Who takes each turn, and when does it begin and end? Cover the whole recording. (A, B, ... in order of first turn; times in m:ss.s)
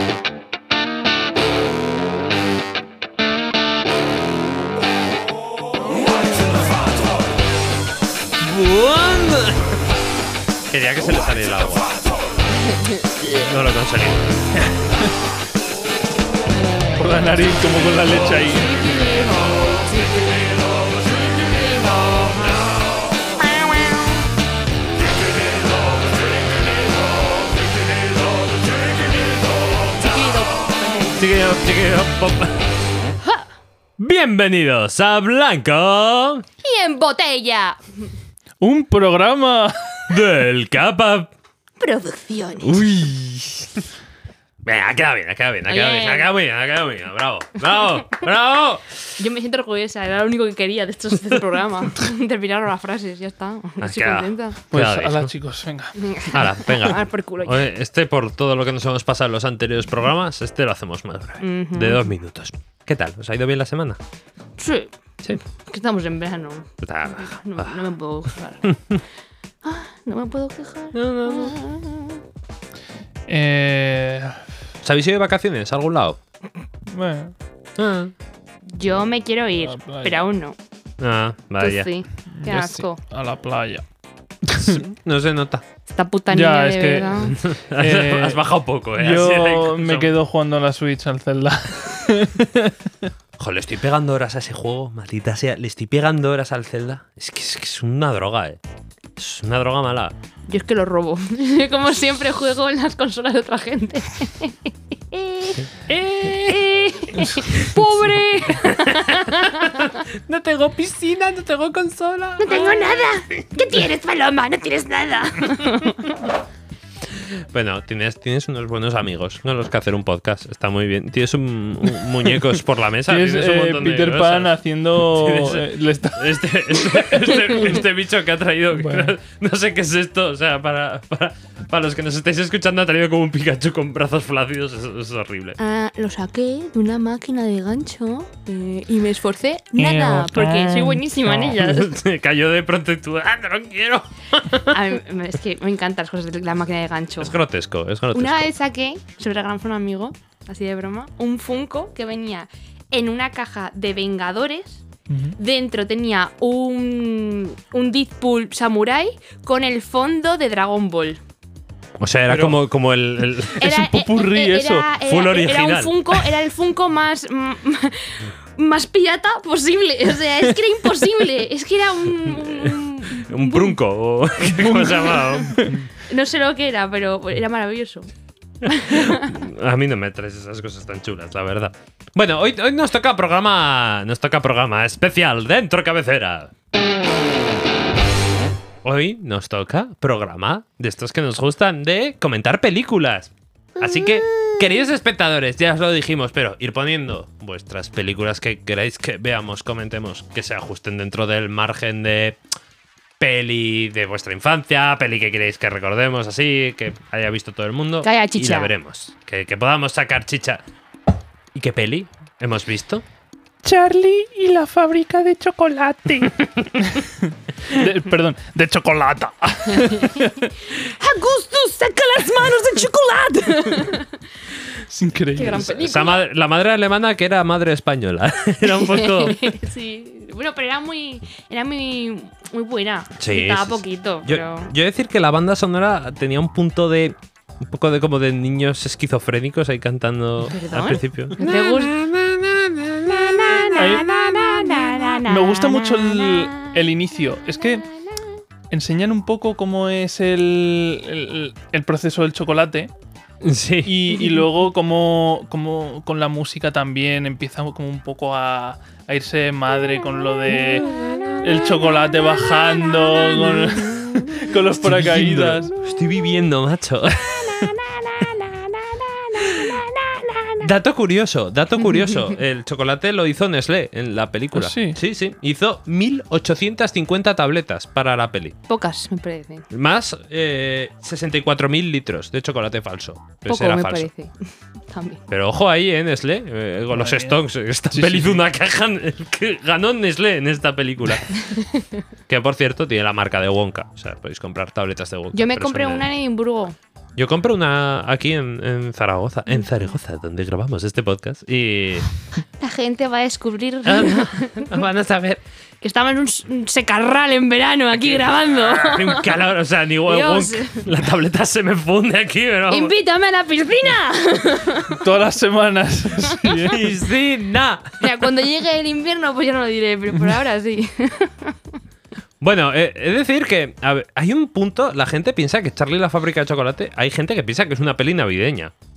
0:08.4-0:09.7 A
0:10.7-0:11.9 A
0:12.7-0:13.0 B
0:13.2-0:14.4 A
0:14.6-0:15.1 C
0:17.0-0:18.8 C
0:18.5-0:20.6 B
0:21.6-0:22.5 B
0:30.0-0:31.2 B
0:31.1-0:32.6 A
0:34.0-0:36.4 A
0:36.6-0:38.1 B
0:38.6-0:40.1 C
0:40.1-0:41.3 A
0:41.8-0:42.7 B
0:42.6-0:43.8 A
0:44.6-0:49.1 A
0:45.7-0:46.3 B
0:49.2-0:54.6 B
0:53.8-0:55.3 A
0:54.7-0:56.0 C
0:56.0-0:57.6 B
0:56.3-1:04.0 A
1:01.4-1:02.1 B
1:04.6-1:04.9 B
1:05.6-1:08.7 B
1:06.8-1:07.8 A
1:08.6-1:09.0 A
1:09.6-1:12.2 B
1:10.9-1:11.6 A
1:13.3-1:14.4 C
1:14.8-1:16.2 A
1:16.9-1:17.3 C
1:17.8-1:18.1 A
1:18.7-1:20.6 B
1:19.6-1:20.3 C
1:21.0-1:21.9 A
1:21.6-1:23.0 B
1:22.3-1:23.8 C
1:24.4-1:24.8 C
1:24.6-1:25.6 A
1:25.9-1:27.4 B
1:26.3-1:33.1 C
1:27.3-1:30.1 A
1:33.4-1:38.6 A
1:39.2-1:40.1 A
1:40.5-1:50.0 B
1:45.7-1:46.6 A
1:48.5-1:53.4 A
1:52.4-1:56.1 B
1:57.4-2:15.6 A
2:03.1-2:07.8 C
2:08.8-2:09.1 C
2:15.6-2:21.9 B
2:19.8-2:21.6 C
2:21.5-2:24.8 A
2:24.7-2:27.4 B
2:27.2-2:28.5 A
2:28.1-2:34.8 B
2:35.1-2:35.4 C
2:35.4-2:41.2 B
2:42.0-2:43.7 A
2:42.3-2:42.6 C
2:43.6-2:53.8 B
2:43.6-2:44.9 C
2:45.0-2:46.3 A
2:52.2-2:55.9 A
2:54.4-2:55.8 C
2:54.7-2:55.4 B
2:56.0-2:58.1 B
2:58.6-3:06.5 A
2:58.6-2:59.4 B
3:08.8-3:22.4 A
3:13.8-3:14.6 B
3:23.2-3:30.6 A
3:28.0-3:28.7 B
3:31.5-3:33.0 A
3:33.6-3:44.0 C
3:39.9-3:40.3 B
3:42.3-3:42.6 B
3:43.4-3:44.1 B
3:44.9-3:45.9 C
3:45.4-3:46.2 B
3:45.7-3:49.5 A
3:48.7-3:54.7 B
3:53.2-4:05.0 A
4:00.4-4:02.0 B
4:03.1-4:06.8 B
4:03.7-4:04.1 C
4:05.2-4:07.9 C
4:07.4-4:08.2 B
4:08.7-4:12.9 C
4:13.4-4:14.1 A
4:13.8-4:25.7 C
4:20.9-4:21.8 B
4:23.2-4:24.2 B
4:24.8-4:27.7 A
4:27.6-4:27.8 B
4:29.3-4:29.8 A
4:29.4-4:30.6 B
4:30.6-4:38.5 A
4:31.8-4:32.3 B
4:34.5-4:35.0 C
4:38.7-4:39.7 B
4:39.7-4:44.1 A
4:43.4-4:45.2 B
4:45.3-4:51.3 A
4:46.9-4:47.4 C
4:47.9-4:48.4 C
4:51.5-4:51.8 B
4:52.3-4:56.1 A
4:55.3-4:56.8 B
4:57.2-5:02.1 A
5:02.6-5:04.8 B
5:03.8-5:05.4 A
5:05.8-5:09.3 B
5:08.0-5:12.9 A
5:10.0-5:10.8 B
5:12.7-5:15.0 B
5:14.9-5:16.9 C
5:16.7-5:17.9 A
5:18.0-5:21.7 B
5:22.4-5:28.7 A